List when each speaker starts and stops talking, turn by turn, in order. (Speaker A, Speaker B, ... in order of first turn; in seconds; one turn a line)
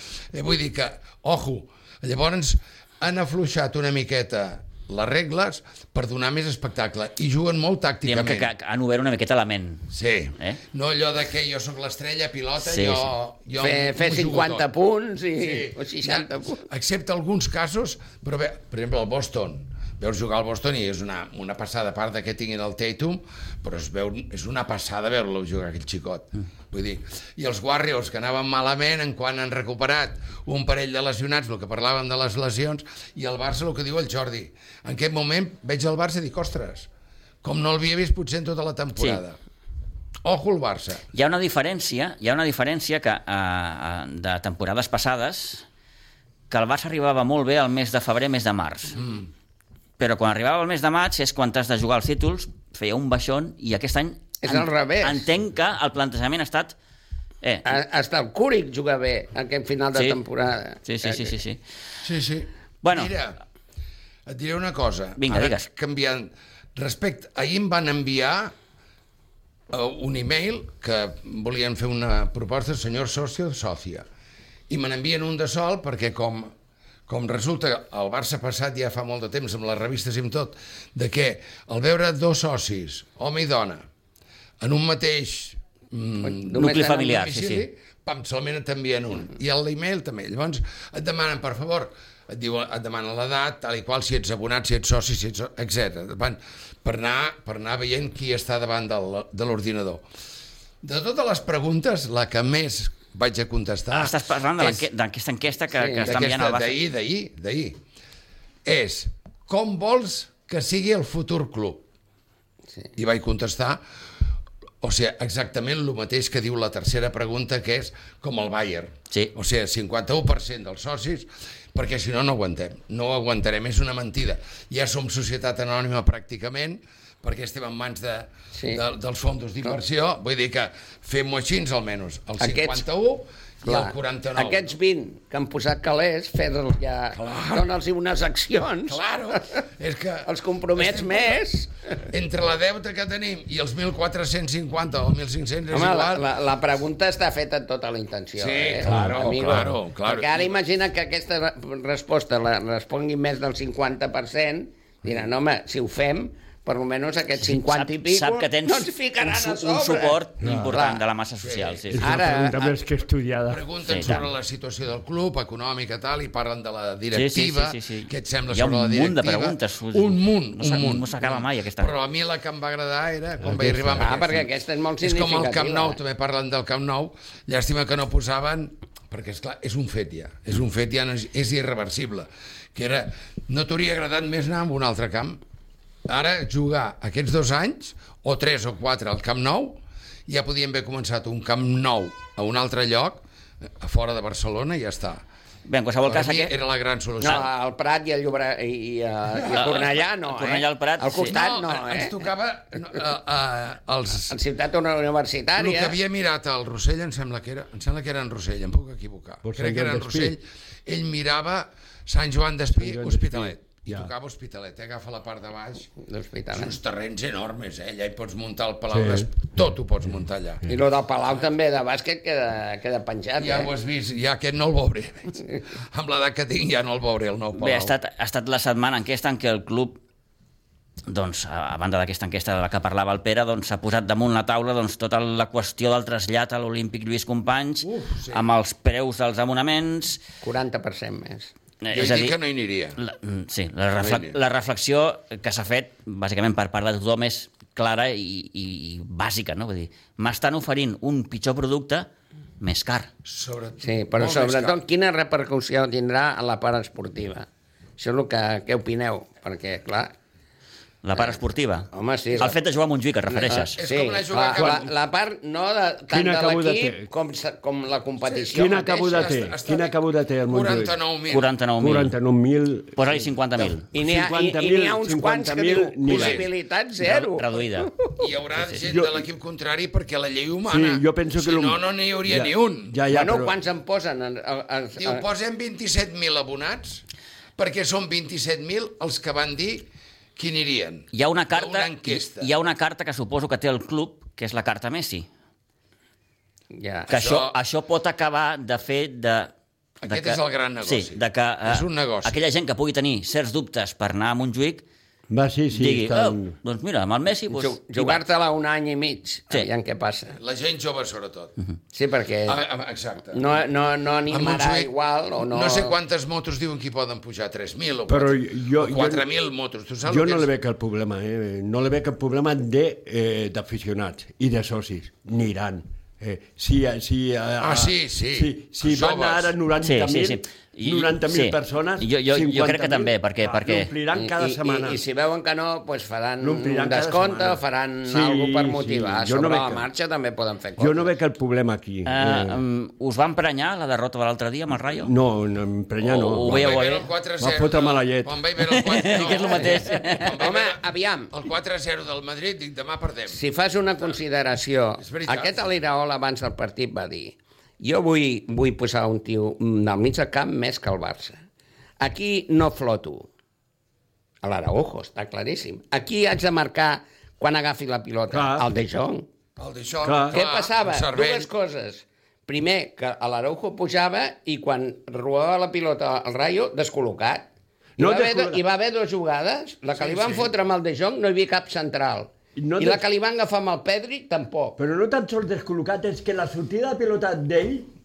Speaker A: 0.3-8.5
Speaker B: 8.0-10.6
Speaker A: 9.9-14.6
Speaker B: 12.6-13.1
Speaker C: 13.6-16.6
Speaker A: 15.4-36.9
Speaker A: 37.4-39.4
Speaker A: 40.2-41.0
Speaker B: 41.1-45.6
Speaker B: 46.5-49.0
Speaker A: 49.0-49.2
Speaker B: 50.0-56.8
Speaker C: 54.4-55.3
Speaker C: 57.6-61.4
Speaker B: 60.9-61.6
Speaker A: 62.0-63.4
Speaker B: 62.8-63.1
Speaker A: 64.2-68.5
Speaker B: 65.2-65.7
Speaker A: 69.7-74.0
Speaker A: 74.7-76.5
Speaker A: 77.1-83.9
Speaker A: 84.6-100.0
Speaker C: 86.2-87.2
Speaker B: 86.5-87.7
Speaker A: 100.8-104.8
Speaker B: 103.9-106.8
Speaker C: 105.8-106.1
Speaker A: 106.0-107.8
Speaker A: 108.6-111.8
Speaker A: 113.0-113.8
Speaker A: 114.8-134.7
Speaker C: 128.5-128.8
Speaker C: 132.4-132.8
Speaker C: 133.6-139.0
Speaker A: 137.1-137.7
Speaker A: 138.9-141.4
Speaker C: 140.2-142.1
Speaker A: 142.1-146.3
Speaker C: 145.7-161.0
Speaker A: 148.4-150.5
Speaker D: 148.9-149.6
Speaker B: 157.4-162.0
Speaker D: 160.4-160.8
Speaker A: 161.4-161.9
Speaker D: 161.9-164.2
Speaker C: 162.0-162.8
Speaker A: 163.5-174.5
Speaker B: 163.9-164.3
Speaker B: 167.1-171.9
Speaker D: 173.4-174.2
Speaker C: 174.0-176.0
Speaker A: 175.0-185.4
Speaker A: 186.1-193.2
Speaker A: 193.8-195.2
Speaker B: 195.7-196.6
Speaker A: 196.0-197.5
Speaker C: 197.2-202.3
Speaker B: 199.5-201.3
Speaker A: 201.2-204.4
Speaker C: 204.3-206.0
Speaker A: 205.6-215.9
Speaker D: 209.4-210.4
Speaker D: 212.7-214.1
Speaker C: 216.0-216.8
Speaker A: 216.5-220.6
Speaker D: 218.9-219.3
Speaker C: 220.7-223.7
Speaker A: 223.4-227.9
Speaker B: 227.5-230.0
Speaker B: 231.1-240.2
Speaker A: 237.8-238.4
Speaker C: 240.4-241.5
Speaker B: 241.8-242.4
Speaker A: 241.9-243.0
Speaker B: 243.0-252.1
Speaker A: 244.0-244.4
Speaker B: 252.6-253.1
Speaker A: 253.2-254.8
Speaker C: 253.8-257.5
Speaker C: 258.0-260.1
Speaker B: 261.0-263.8
Speaker C: 261.9-262.6
Speaker C: 263.3-269.3
Speaker A: 263.8-264.9
Speaker D: 264.6-264.9
Speaker D: 266.1-267.1
Speaker A: 268.2-269.9
Speaker D: 268.5-271.0
Speaker A: 270.5-271.5
Speaker B: 271.3-272.1
Speaker D: 271.8-276.5
Speaker B: 273.0-273.9
Speaker C: 273.9-278.2
Speaker A: 276.1-276.5
Speaker B: 277.0-277.9
Speaker A: 278.1-283.0
Speaker D: 278.8-279.2
Speaker D: 280.7-283.5
Speaker C: 283.1-285.2
Speaker A: 285.0-287.0
Speaker A: 287.6-292.5
Speaker B: 291.1-295.3
Speaker C: 296.7-297.1
Speaker A: 297.1-297.6
Speaker B: 297.1-299.5
Speaker A: 300.0-302.4
Speaker B: 300.1-304.8
Speaker D: 305.3-306.6
Speaker B: 305.7-308.2
Speaker C: 307.5-310.4
Speaker A: 310.4-311.5
Speaker C: 311.9-312.6
Speaker A: 312.4-313.5
Speaker C: 313.3-316.0
Speaker A: 314.3-320.5
Speaker D: 318.1-319.2
Speaker D: 320.0-335.0
Speaker A: 327.6-329.5
Speaker B: 329.8-333.9
Speaker C: 334.1-341.1
Speaker D: 336.4-339.9
Speaker D: 340.8-342.6
Speaker B: 342.0-345.1
Speaker D: 344.9-346.8
Speaker B: 346.0-347.1
Speaker A: 346.4-353.4
Speaker D: 347.4-348.4
Speaker B: 348.6-350.4
Speaker C: 350.4-351.3
Speaker C: 353.3-361.4
Speaker A: 355.0-355.6
Speaker C: 362.0-363.3
Speaker C: 364.4-369.3
Speaker D: 368.3-368.6
Speaker A: 369.6-371.5
Speaker D: 370.0-370.4
Speaker C: 370.3-377.5
Speaker D: 378.0-378.6
Speaker C: 378.0-384.8
Speaker D: 382.6-383.0
Speaker D: 384.8-387.9